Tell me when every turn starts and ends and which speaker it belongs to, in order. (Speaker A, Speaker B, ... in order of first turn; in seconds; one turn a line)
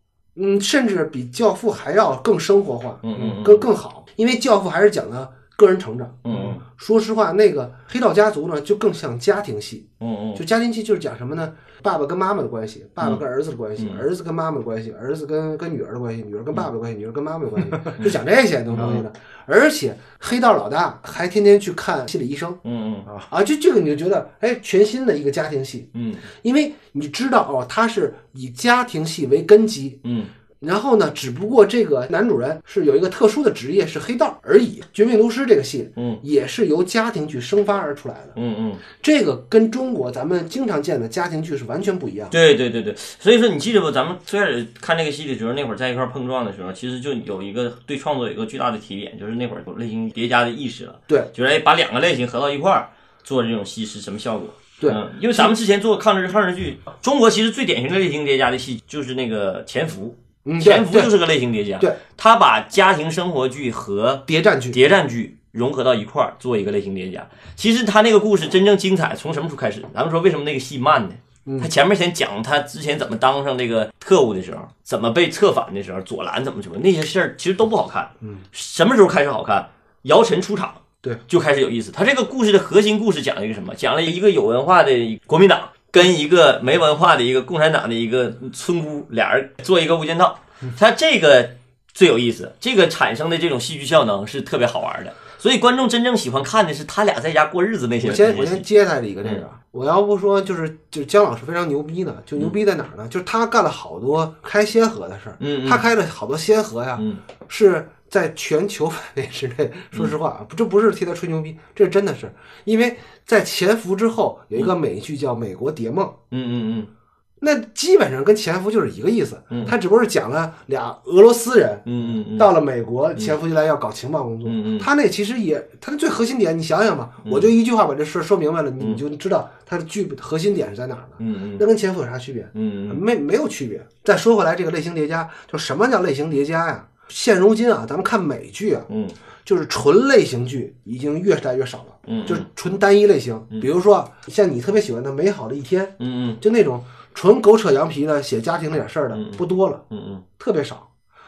Speaker A: 0.3-22.6
Speaker B: 3.0-3.7
Speaker B: 6.2-6.6
Speaker B: 10.0-10.4
Speaker B: 13.8-14.0
Speaker B: 18.7-19.0
Speaker B: 22.6-23.1
Speaker A: 23.3-30.0
Speaker B: 25.9-26.2
Speaker B: 30.0-30.3
Speaker A: 30.6-38.3
Speaker B: 36.0-36.2
Speaker B: 38.3-38.8
Speaker A: 38.9-42.3
Speaker B: 42.3-98.6
Speaker A: 54.8-55.5
Speaker A: 60.4-61.2
Speaker A: 64.3-64.8
Speaker A: 71.5-71.7
Speaker A: 98.0-116.2
Speaker B: 105.4-105.8
Speaker B: 116.3-116.9
Speaker A: 117.4-138.9
Speaker B: 119.5-119.8
Speaker B: 121.8-122.5
Speaker B: 124.4-124.9
Speaker B: 127.2-127.5
Speaker B: 131.2-131.6
Speaker B: 132.5-133.0
Speaker B: 138.9-139.2
Speaker A: 139.4-149.8
Speaker B: 142.1-142.5
Speaker B: 146.0-146.4
Speaker B: 149.1-150.2
Speaker A: 150.4-150.9